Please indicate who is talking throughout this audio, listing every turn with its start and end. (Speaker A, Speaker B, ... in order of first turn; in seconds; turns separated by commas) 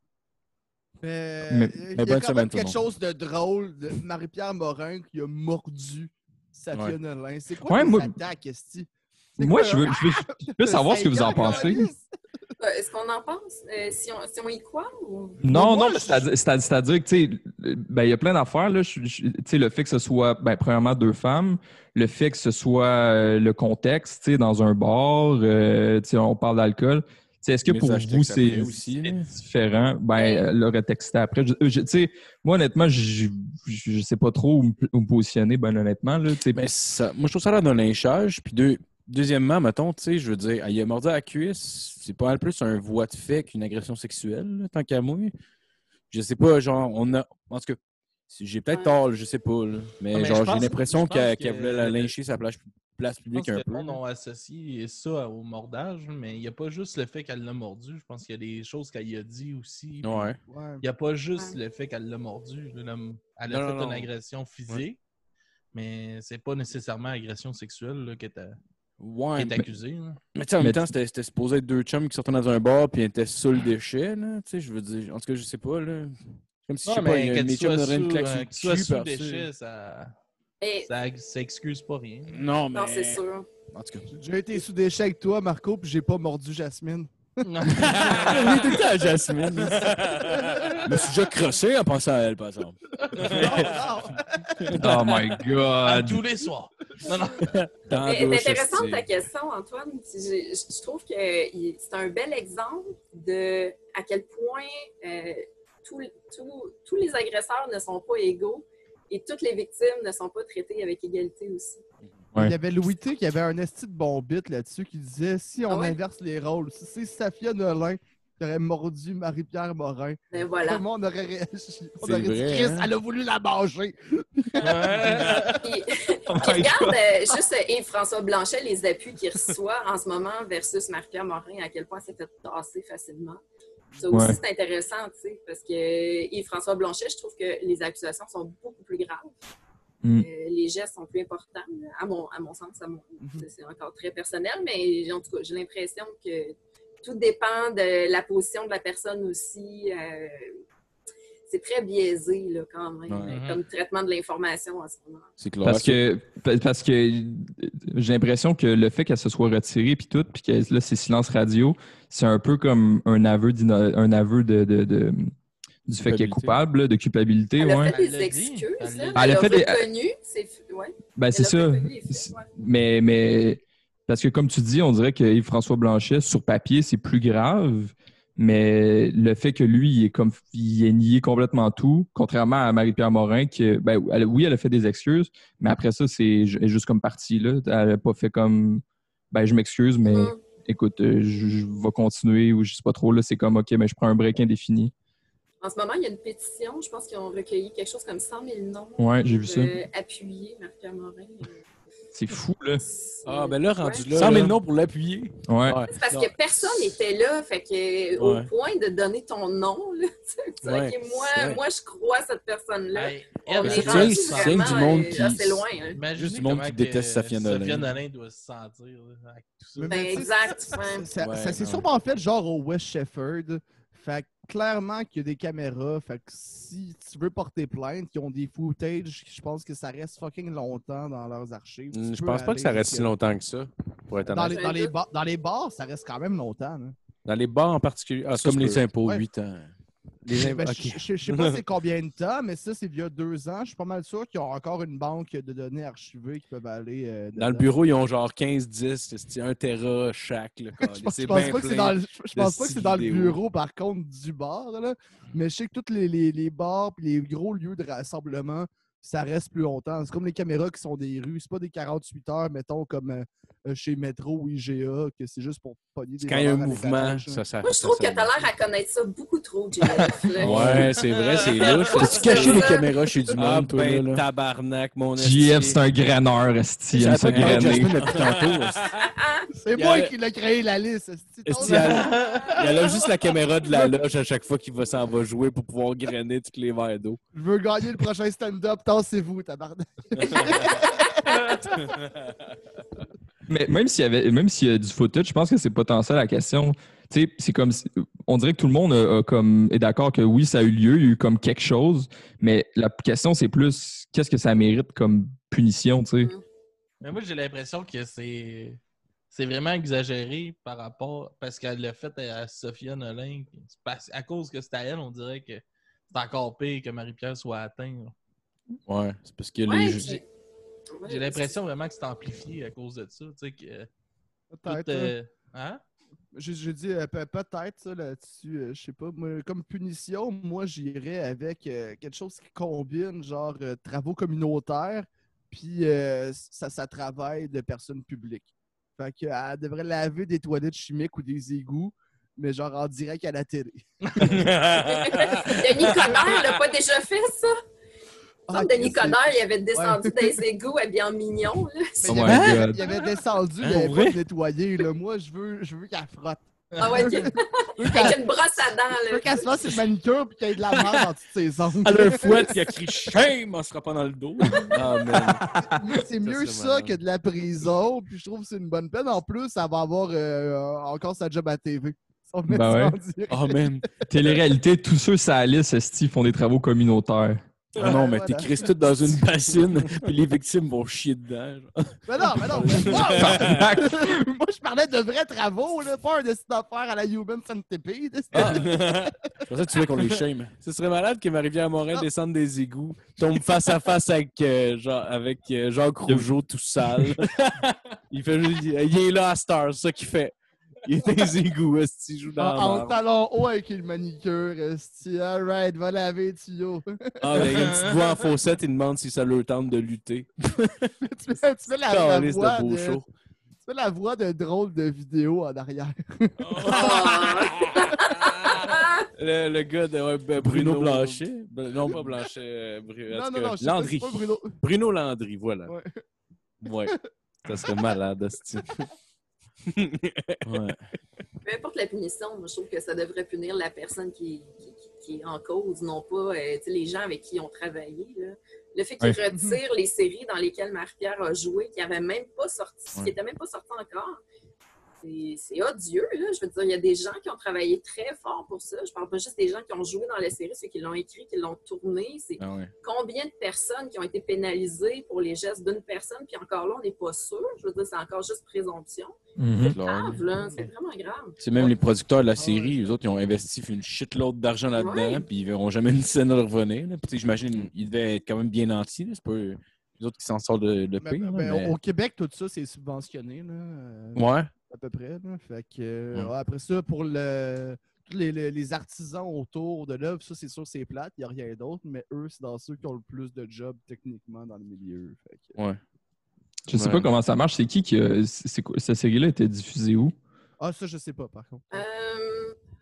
Speaker A: 1.0-12.1, Speaker B: 1.5-1.8, Speaker C: 1.9-2.8, Speaker B: 7.7-8.2, Speaker B: 9.4-11.9, Speaker D: 12.6-15.4, Speaker B: 15.4-36.7, Speaker A: 15.5-16.3, Speaker C: 27.7-29.3, Speaker D: 30.1-30.5, Speaker C: 36.5-45.3, Speaker C: 46.1-47.8, Speaker C: 48.3-54.0, Speaker E: 50.1-52.1, Speaker E: 53.3-65.0, Speaker C: 60.0-60.4, Speaker A: 60.5-60.8, Speaker C: 63.5-63.9, Speaker F: 63.6-64.1, Speaker E: 65.7-68.6, Speaker C: 69.0-69.6, Speaker E: 69.3-70.2, Speaker C: 70.3-79.5, Speaker E: 76.8-80.1, Speaker D: 80.6-80.9, Speaker E: 80.8-82.4, Speaker C: 82.3-84.1, Speaker D: 82.7-83.5, Speaker A: 84.1-87.7, Speaker E: 87.4-88.8, Speaker C: 87.7-90.1, Speaker E: 89.5-91.2, Speaker F: 89.7-90.5, Speaker A: 90.5-90.8, Speaker C: 90.8-93.7, Speaker E: 93.0-93.9, Speaker A: 93.2-94.8, Speaker B: 94.8-96.3, Speaker E: 94.8-95.1, Speaker E: 95.8-97.6, Speaker C: 97.4-99.0, Speaker F: 97.6-98.7, Speaker D: 98.0-111.8, Speaker A: 112.4-125.6, Speaker D: 115.7-116.0, Speaker D: 120.3-120.8, Speaker C: 122.0-122.8, Speaker F: 122.1-122.8, Speaker E: 124.6-125.6, Speaker D: 125.6-133.4, Speaker B: 126.4-127.0, Speaker D: 134.0-139.3, Speaker B: 134.1-134.4, Speaker D: 140.1-150.6, Speaker D: 151.5-155.3, Speaker C: 153.1-153.4, Speaker E: 153.3-153.6, Speaker C: 155.4-156.0, Speaker B: 155.6-165.3, Speaker B: 165.9-167.9, Speaker C: 165.9-166.6, Speaker D: 167.6-172.5, Speaker E: 167.8-169.5, Speaker B: 169.2-169.9, Speaker B: 171.2-194.9, Speaker D: 190.0-190.4, Speaker D: 195.6-201.6, Speaker B: 199.0-199.8, Speaker B: 202.1-202.8, Speaker D: 202.8-204.1, Speaker F: 203.2-204.6, Speaker C: 204.0-206.8, Speaker B: 205.5-205.8, Speaker D: 205.9-216.0, Speaker C: 208.2-208.5, Speaker F: 210.7-210.9, Speaker C: 211.3-211.6, Speaker E: 212.9-214.9, Speaker F: 213.6-214.1, Speaker C: 213.6-217.9, Speaker E: 215.9-220.8, Speaker A: 219.8-233.1, Speaker D: 219.9-221.1, Speaker C: 221.2-221.8, Speaker F: 221.4-221.8, Speaker F: 231.9-234.6, Speaker A: 234.3-237.0, Speaker D: 234.4-234.9, Speaker F: 237.3-238.9, Speaker C: 238.3-239.7, Speaker A: 240.3-247.7, Speaker C: 240.3-240.8, Speaker F: 240.3-241.6, Speaker F: 247.4-253.4, Speaker A: 250.8-267.4, Speaker C: 251.2-251.9, Speaker F: 266.2-268.3, Speaker D: 267.6-270.9, Speaker C: 270.4-274.2, Speaker F: 270.4-272.8, Speaker E: 271.2-272.0, Speaker D: 271.8-272.9, Speaker F: 273.3-275.8, Speaker B: 275.2-278.0, Speaker C: 276.9-278.8, Speaker F: 277.2-278.7, Speaker D: 278.9-279.5, Speaker A: 279.5-282.1, Speaker F: 279.8-280.1, Speaker F: 281.5-287.2, Speaker E: 281.6-283.0, Speaker D: 282.1-282.7, Speaker A: 287.3-292.0, Speaker F: 290.2-290.8, Speaker E: 291.2-291.6, Speaker F: 291.8-292.1, Speaker B: 293.5-306.3, Speaker E: 307.0-308.8, Speaker E: 309.3-318.1, Speaker C: 318.9-320.2, Speaker D: 319.7-320.2, Speaker D: 320.9-321.5, Speaker E: 321.1-323.9, Speaker A: 324.5-325.1, Speaker E: 324.7-325.8, Speaker A: 326.3-344.5, Speaker E: 344.1-344.4, Speaker F: 344.2-346.6, Speaker D: 344.7-347.5, Speaker A: 348.5-350.4, Speaker D: 348.5-352.3, Speaker A: 352.0-357.3, Speaker B: 352.1-352.8, Speaker C: 352.3-352.6, Speaker F: 353.6-354.1, Speaker C: 353.7-354.1, Speaker E: 356.7-357.3, Speaker D: 356.8-359.7, Speaker A: 357.8-358.3, Speaker A: 359.1-362.6, Speaker C: 361.8-365.4, Speaker F: 364.7-365.4, Speaker B: 365.2-366.0, Speaker A: 365.6-374.1, Speaker F: 366.2-367.0, Speaker B: 372.5-373.0, Speaker C: 373.3-373.9, Speaker B: 374.1-377.4, Speaker A: 377.8-378.7, Speaker C: 377.8-381.7, Speaker A: 382.1-389.1, Speaker C: 382.4-383.6, Speaker F: 382.5-383.6, Speaker B: 383.1-384.2, Speaker F: 388.3-389.1, Speaker C: 388.3-388.7, Speaker C: 389.5-390.5, Speaker F: 390.0-403.0, Speaker A: 402.4-407.8, Speaker F: 407.2-410.6, Speaker E: 407.4-408.1, Speaker A: 411.0-413.0, Speaker F: 411.8-413.1, Speaker A: 413.6-417.2, Speaker F: 416.4-425.7, Speaker D: 416.6-419.1, Speaker C: 420.4-421.9, Speaker A: 421.8-422.1, Speaker A: 423.1-424.6, Speaker A: 425.7-426.0, Speaker F: 426.6-426.9, Speaker F: 427.5-428.9, Speaker F: 429.7-430.4, Speaker C: 430.4-430.8, Speaker D: 431.4-444.2, Speaker A: 439.3-439.6, Speaker D: 445.0-461.4, Speaker C: 452.4-452.7, Speaker B: 459.4-459.8, Speaker C: 459.7-460.2, Speaker A: 460.4-460.7, Speaker C: 461.4-471.0, Speaker A: 462.4-462.8, Speaker D: 464.7-465.3, Speaker F: 470.8-471.7, Speaker A: 471.0-485.6, Speaker C: 474.2-474.4, Speaker B: 486.7-490.1, Speaker C: 486.8-487.0, Speaker A: 490.6-491.8, Speaker D: 491.7-492.6